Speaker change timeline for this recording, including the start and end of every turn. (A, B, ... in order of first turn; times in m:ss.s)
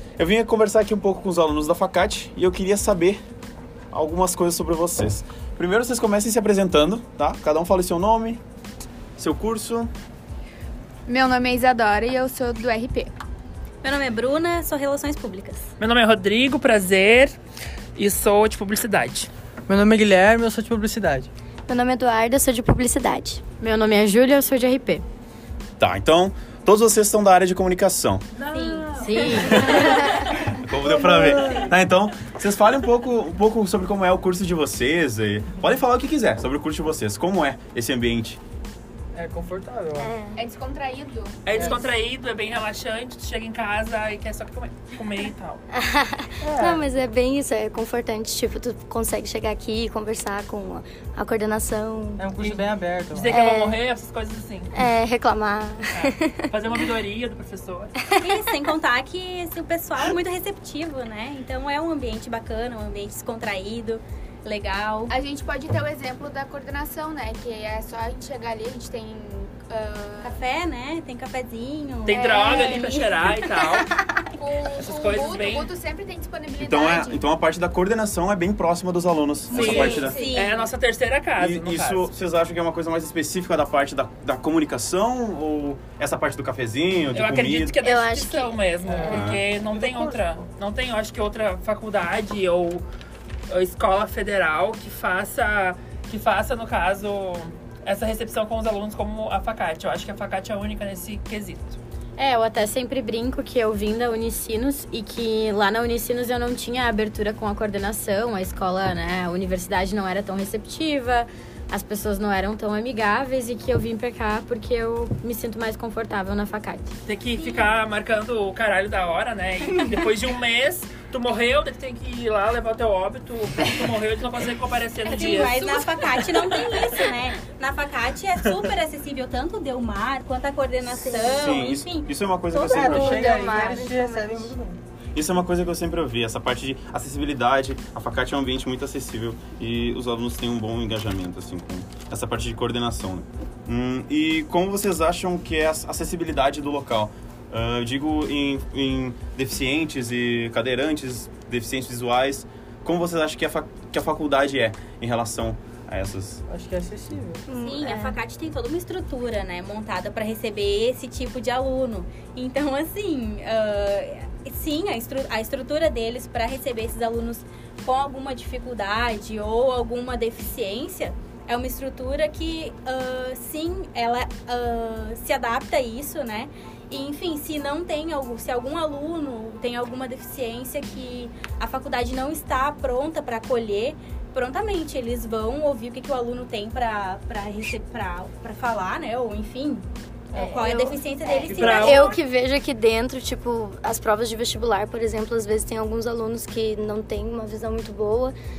0:00.2-0:03.2 A
0:03.9-0:08.4 A
0:09.2-0:09.9 A
0:11.1-0:13.1 B
0:13.8-0:15.7 C
0:15.8-0:17.4 D
0:18.0-0:19.3 D
0:19.7-0:21.3 E
0:21.7-0:23.4 F
0:23.6-0:25.0 G
0:25.8-0:28.2 A
0:28.4-0:30.1 D
0:28.5-0:29.0 C
0:29.0-0:29.7 G
0:29.3-0:38.4 A
0:39.1-0:40.1 E
0:40.0-0:40.4 F
0:40.4-0:41.9 B
0:41.4-0:45.6 D
0:45.7-0:52.3 F
0:46.4-0:46.8 E
0:52.2-0:53.3 E
0:52.4-0:54.7 D
0:53.2-0:53.8 F
0:54.7-0:56.4 F
0:55.9-0:58.0 D
0:58.2-1:05.1 C
1:05.1-1:10.4 B
1:10.2-1:13.0 C
1:12.0-1:13.9 D
1:12.1-1:13.6 B
1:14.4-1:17.2 B
1:14.8-1:15.7 D
1:16.6-1:20.2 A
1:19.5-1:20.7 C
1:19.5-1:22.1 D
1:20.0-1:20.4 B
1:21.4-1:27.8 A
1:27.1-1:32.8 D
1:27.8-1:29.4 F
1:29.0-1:29.4 A
1:29.7-1:30.1 E
1:33.5-1:41.8 D
1:42.2-1:56.9 G
1:57.0-2:05.8 D
1:57.4-1:57.7 C
2:05.1-2:13.6 C
2:11.0-2:11.4 F
2:11.4-2:13.2 A
2:12.6-2:14.8 E
2:12.7-2:14.5 F
2:15.1-2:36.4 A
2:36.5-2:37.4 E
2:37.5-3:12.2 C
2:37.5-2:38.2 F
3:10.3-3:18.3 F
3:11.5-3:12.1 D